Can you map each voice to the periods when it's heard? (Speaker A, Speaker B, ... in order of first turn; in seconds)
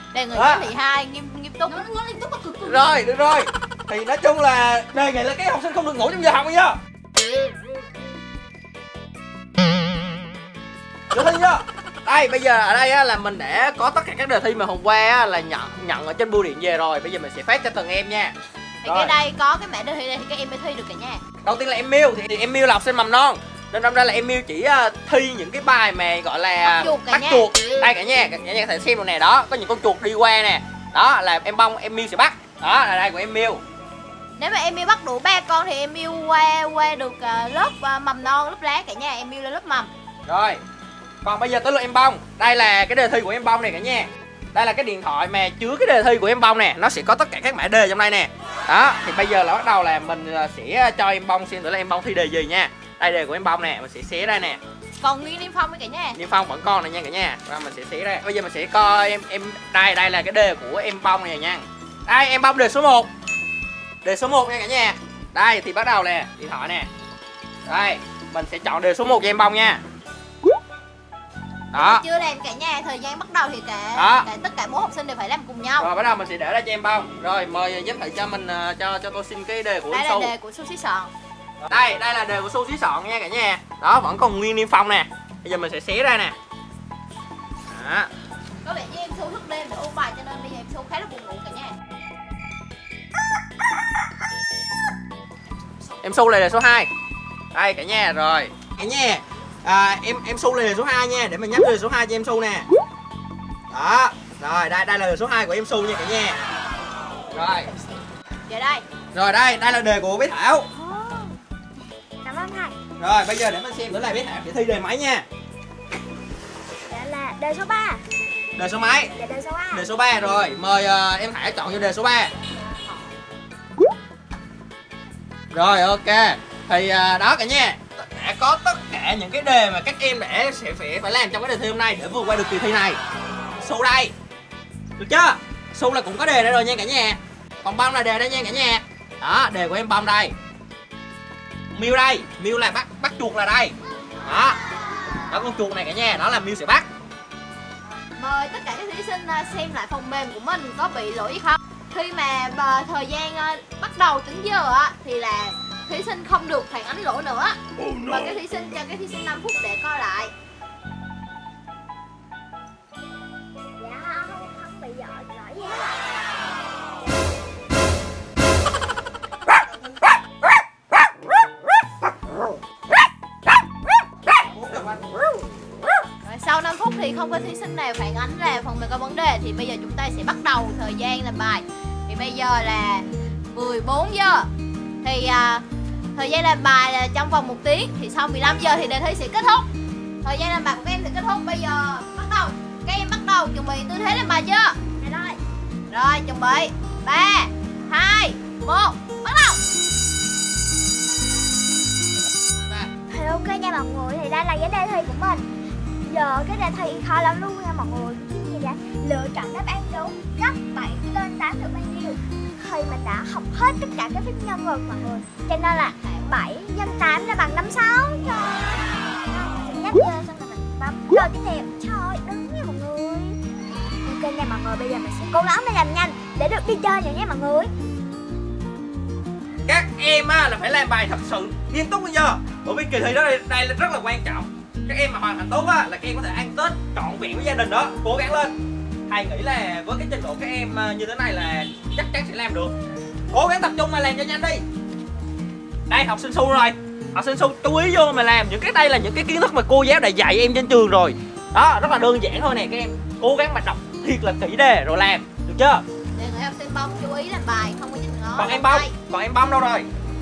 Speaker A: 0.1-2.9, 18.8-21.2, 26.6-27.5, 34.4-39.9, 55.0-56.2, 71.7-75.9, 79.9-81.1, 88.6-91.7, 108.5-108.8, 148.1-160.3, 176.2-184.5, 185.0-185.6, 186.1-189.7, 190.2-194.8, 195.9-199.6, 215.8-216.4, 256.1-258.9
Speaker B: 0.3-0.7, 2.6-6.8, 11.1-18.3, 18.9-19.1, 21.4-33.6, 40.3-40.6, 41.2-54.6, 56.1-63.1, 64.0-66.9, 67.7-69.8, 71.7-72.0, 74.0-74.3, 75.8-80.3, 81.6-86.3, 87.7-88.1, 96.0-96.9, 97.5-102.7, 103.7-106.4, 107.3-107.7, 109.1-110.7, 113.0-115.2, 118.6-119.1, 119.7-122.3, 125.5-133.0, 133.6-134.1, 135.0-140.3, 141.7-143.7, 144.2-144.6, 145.3-146.9, 174.3-175.1, 202.6-202.9, 229.7-238.5, 239.1-242.7, 243.3-244.6, 245.9-255.8, 258.4-259.9
Speaker C: 110.7-111.4, 112.2-112.8, 116.9-118.0, 119.2-119.9, 163.8-166.0, 195.0-195.4, 203.1-205.4, 206.1-223.4, 224.0-227.7